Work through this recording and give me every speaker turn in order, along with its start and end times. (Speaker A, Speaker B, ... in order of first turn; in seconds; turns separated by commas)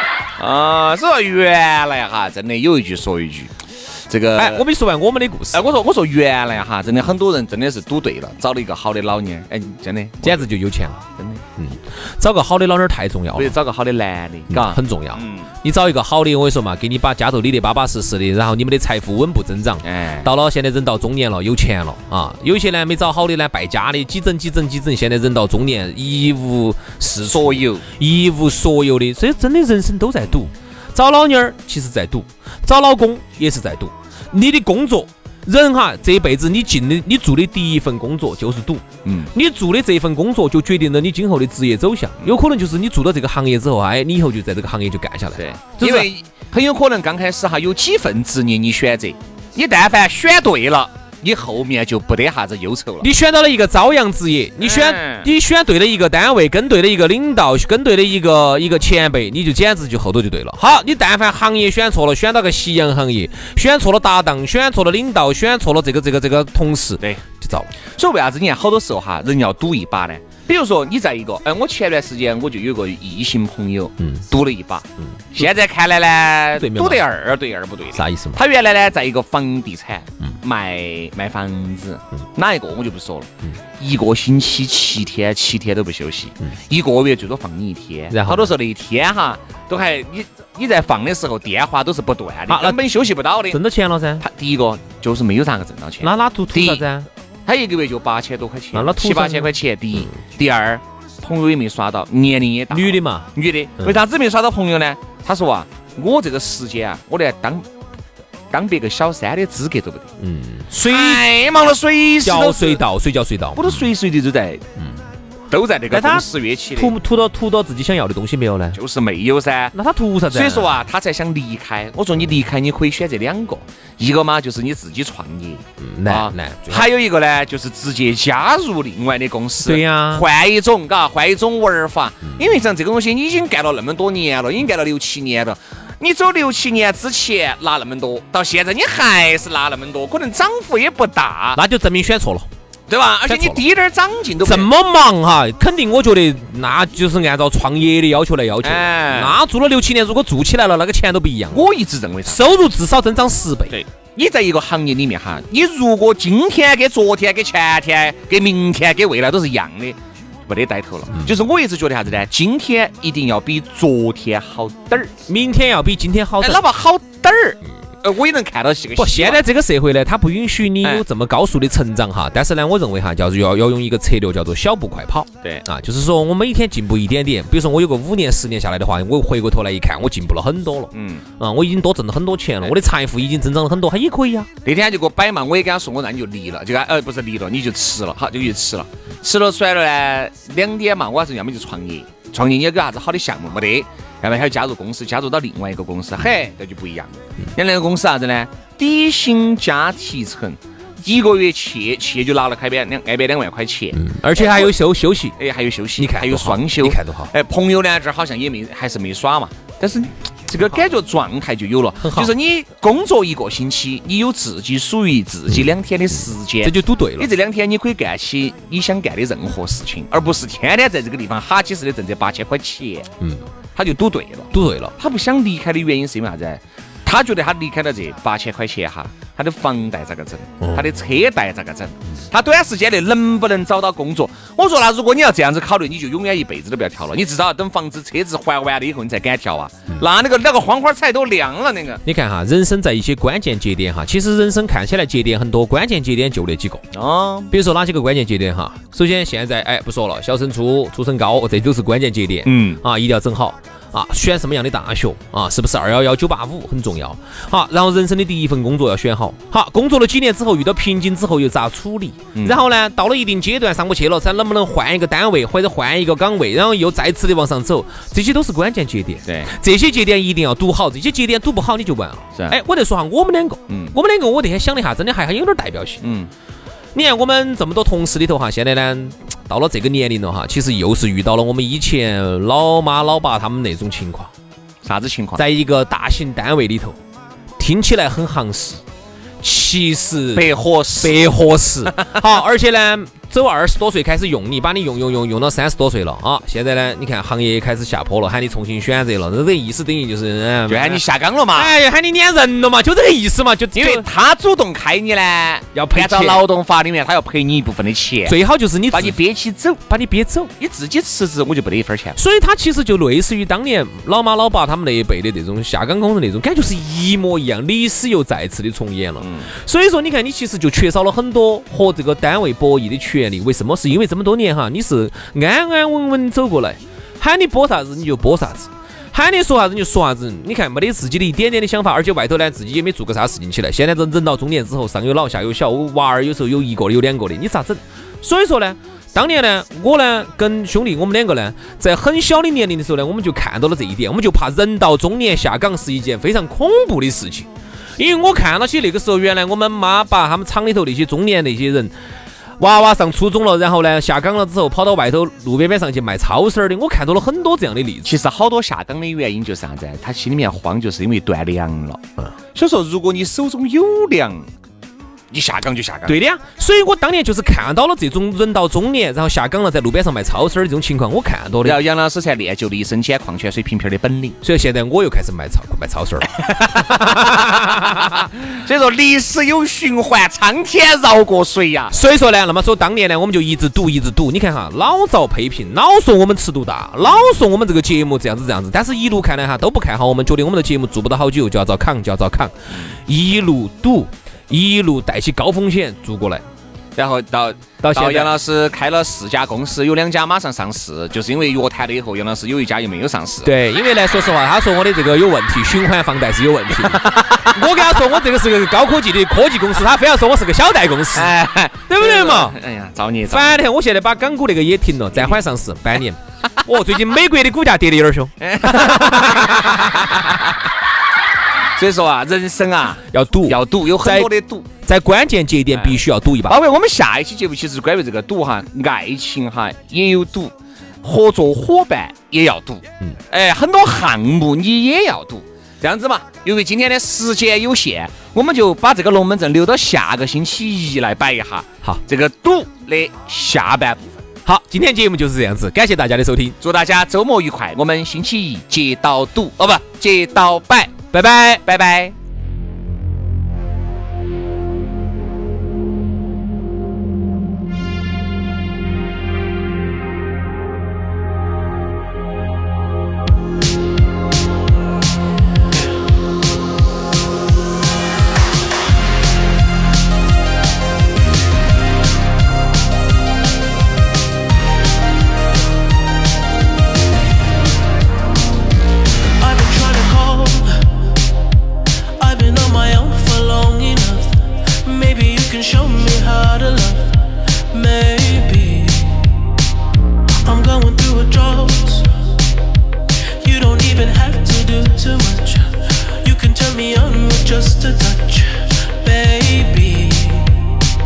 Speaker A: 0.4-3.5, Speaker A: 4.1-4.6, Speaker B: 4.3-5.6, Speaker A: 5.5-10.5, Speaker B: 10.2-11.0, Speaker A: 11.2-11.4, Speaker B: 11.6-13.6, Speaker A: 13.3-15.5, Speaker B: 14.5-46.1, Speaker A: 19.8-20.3, Speaker A: 27.2-27.8, Speaker A: 39.0-39.3, Speaker A: 45.4-53.1, Speaker B: 53.0-67.7, Speaker A: 54.6-55.3, Speaker A: 67.9-93.6, Speaker B: 74.0-74.2, Speaker B: 75.0-75.4, Speaker B: 76.5-77.0, Speaker B: 77.9-78.4, Speaker B: 88.1-88.5, Speaker B: 92.5-92.8, Speaker B: 93.5-94.2, Speaker A: 94.2-96.8, Speaker B: 96.0-97.1, Speaker A: 97.5-107.7, Speaker B: 98.7-100.1, Speaker B: 102.7-103.9, Speaker A: 108.5-110.1, Speaker B: 110.2-111.2, Speaker A: 110.8-112.8, Speaker B: 112.2-113.8, Speaker A: 113.5-114.6, Speaker A: 115.5-117.0, Speaker B: 115.9-118.8, Speaker A: 118.7-119.7, Speaker B: 119.7-120.8, Speaker A: 120.3-141.6, Speaker B: 125.8-126.9, Speaker B: 129.6-130.3, Speaker B: 141.5-142.5, Speaker A: 142.9-144.7, Speaker B: 143.3-143.6, Speaker B: 144.4-151.7, Speaker A: 148.6-149.4, Speaker A: 151.5-152.4, Speaker B: 152.2-153.8, Speaker A: 153.7-165.1, Speaker B: 165.3-166.6, Speaker A: 166.4-169.4, Speaker B: 169.0-184.5, Speaker A: 180.9-181.2, Speaker A: 184.6-204.8, Speaker B: 203.9-205.3, Speaker A: 205.4-223.1, Speaker B: 206.0-207.3, Speaker B: 212.0-212.3, Speaker B: 216.6-217.3, Speaker B: 223.2-223.4, Speaker A: 223.8-242.0, Speaker B: 224.5-224.9, Speaker B: 230.6-230.9, Speaker B: 242.0-246.8, Speaker A: 246.9-247.5, Speaker B: 247.5-276.0, Speaker A: 252.4-252.8, Speaker A: 262.3-262.6, Speaker A: 269.2-269.5, Speaker A: 273.7-273.9, Speaker A: 276.0-276.3, Speaker B: 276.9-284.3, Speaker A: 284.8-285.4, Speaker B: 285.4-287.0, Speaker B: 287.6-288.8, Speaker B: 289.4-290.5, Speaker A: 290.3-291.2, Speaker B: 291.0-301.0, Speaker A: 300.7-301.7, Speaker B: 301.5-304.1, Speaker A: 303.7-308.4, Speaker B: 305.7-306.5, Speaker B: 308.2-309.2, Speaker A: 308.9-309.8, Speaker B: 309.9-310.5, Speaker A: 310.6-312.2, Speaker B: 312.1-351.9, Speaker A: 319.2-319.5, Speaker B: 352.6-358.1, Speaker A: 358.0-362.0, Speaker A: 362.5-364.5, Speaker A: 365.3-366.2, Speaker B: 366.1-371.8, Speaker A: 371.6-374.4, Speaker B: 374.4-378.1, Speaker A: 376.3-381.9, Speaker B: 381.9-396.4, Speaker A: 396.9-403.5, Speaker B: 397.8-398.3, Speaker B: 403.4-411.3, Speaker A: 406.8-407.7, Speaker A: 411.1-413.6, Speaker B: 411.9-412.6, Speaker B: 413.2-419.9, Speaker A: 418.4-420.6, Speaker A: 421.8-424.7, Speaker B: 423.1-426.6, Speaker A: 425.7-444.1, Speaker B: 444.4-446.6, Speaker A: 446.6-451.0, Speaker B: 451.1-451.6, Speaker A: 451.6-452.1, Speaker C: 479.4-480.8, Speaker C: 482.2-487.2, Speaker C: 487.7-489.3, Speaker C: 490.4-492.1, Speaker C: 493.4-500.7